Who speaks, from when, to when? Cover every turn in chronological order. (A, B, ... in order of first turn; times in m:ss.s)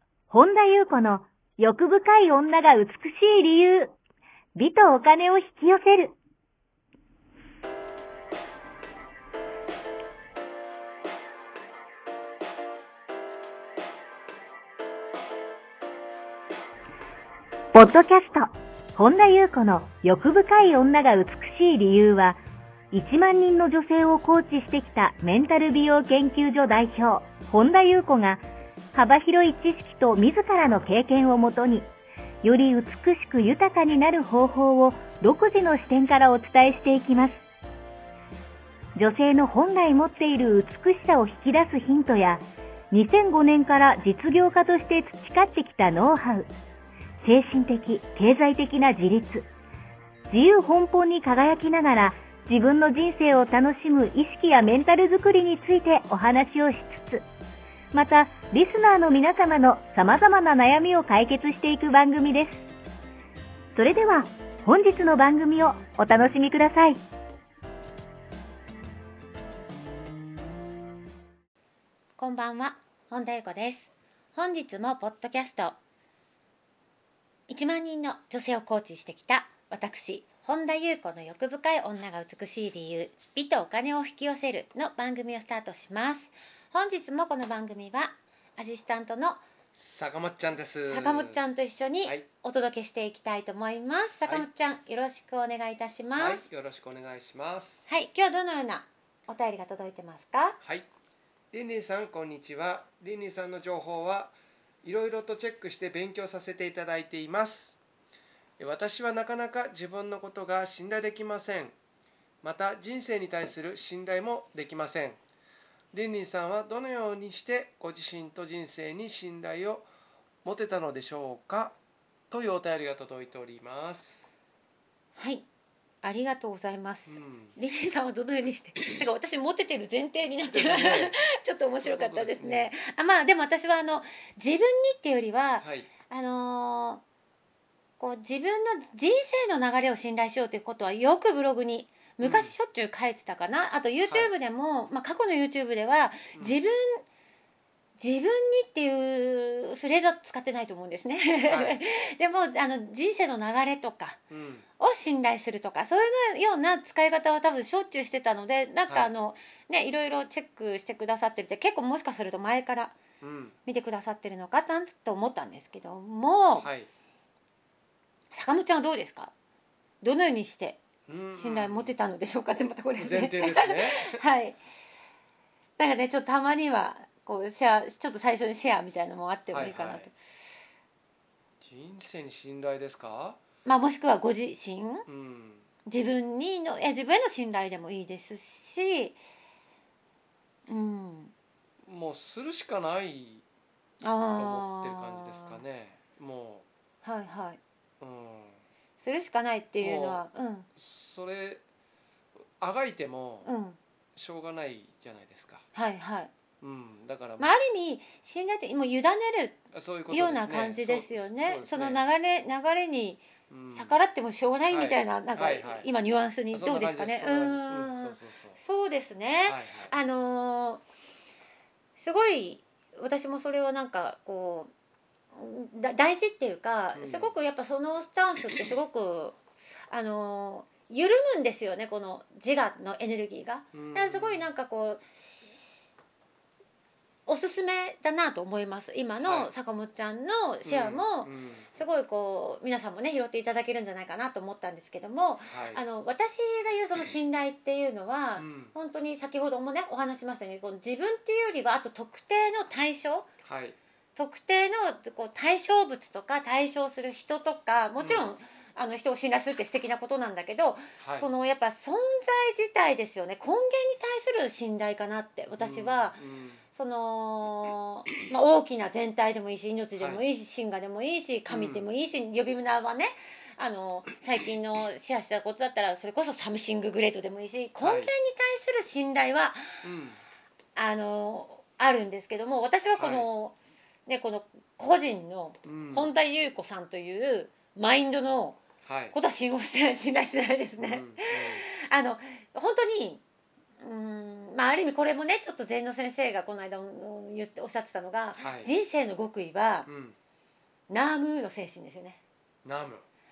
0:00.3-0:03.9 A
0:04.6-0:06.1 A
0:17.7-0:22.4 A
0:22.9-0:28.4 A
0:28.9-0:31.9 A
0:32.4-0:37.4 A
0:39.0-0:46.5 A
0:47.2-0:49.5 A
0:50.3-0:57.2 A
0:57.9-1:02.6 A
1:03.8-1:07.0 A
1:12.2-1:15.8 B
1:17.5-1:29.4 B
1:29.8-1:31.4 C
1:30.9-1:36.5 B
1:36.2-1:37.8 C
1:37.9-1:40.6 B
1:40.6-1:40.9 C
1:41.5-1:47.8 C
1:48.6-1:51.8 C
1:52.4-1:55.2 C
1:55.9-1:59.9 C
2:00.4-2:01.8 C
2:02.3-2:04.3 C
2:05.2-2:05.5 B
2:06.0-2:17.0 B
2:07.1-2:07.6 C
2:10.4-2:11.2 C
2:11.8-2:12.7 C
2:15.6-2:15.9 C
2:18.0-2:27.0 B
2:22.2-2:22.5 C
2:28.0-2:34.2 B
2:31.5-2:31.8 C
2:34.3-2:34.6 C
2:34.8-2:43.0 B
2:43.2-2:43.6 C
2:43.7-2:46.7 B
2:46.6-2:46.9 C
2:48.3-2:49.3 B
2:50.0-2:50.8 B
2:51.1-2:51.9 C
2:51.4-2:54.6 B
2:53.0-2:54.2 C
2:55.8-3:00.2 B
2:59.5-3:00.1 C
3:01.6-3:03.4 C
3:03.6-3:05.1 B
3:05.1-3:05.7 C
3:05.9-3:09.2 B
3:10.7-3:11.3 B
3:11.8-3:13.4 C
3:14.0-3:15.6 B
3:14.3-3:16.6 C
3:17.0-3:17.6 B
3:18.0-3:18.6 C
3:19.0-3:20.7 B
3:19.8-3:20.2 C
3:20.8-3:21.6 C
3:22.6-3:23.5 C
3:23.4-3:23.8 B
3:24.2-3:25.7 C
3:25.7-3:26.3 B
3:26.6-3:27.5 C
3:27.4-3:29.6 B
3:29.7-3:32.0 C
3:30.1-3:40.8 B
3:33.5-3:34.0 C
3:34.7-3:35.9 C
3:36.5-3:38.6 C
3:39.4-3:39.9 C
3:42.0-3:44.7 B
3:45.4-3:49.4 B
3:47.0-3:47.3 C
3:49.9-3:55.0 B
3:53.7-3:54.5 C
3:57.3-4:13.3 B
3:59.2-3:59.5 C
4:00.6-4:01.7 C
4:05.5-4:05.8 C
4:08.4-4:08.7 C
4:13.4-4:13.8 C
4:14.2-4:26.2 B
4:18.0-4:18.3 C
4:21.0-4:21.3 C
4:25.5-4:26.6 C
4:26.7-4:39.7 B
4:30.0-4:30.2 C
4:31.5-4:31.9 C
4:37.8-4:38.1 C
4:39.8-4:40.2 C
4:40.8-4:43.6 B
4:43.0-4:43.3 C
4:44.1-4:48.6 B
4:45.6-4:46.1 C
4:48.8-4:49.2 C
4:49.1-4:53.2 B
4:50.8-4:51.7 C
4:53.8-4:59.9 B
4:58.4-4:58.7 C
4:59.9-5:00.2 C
5:00.9-5:02.2 B
5:02.6-5:03.1 C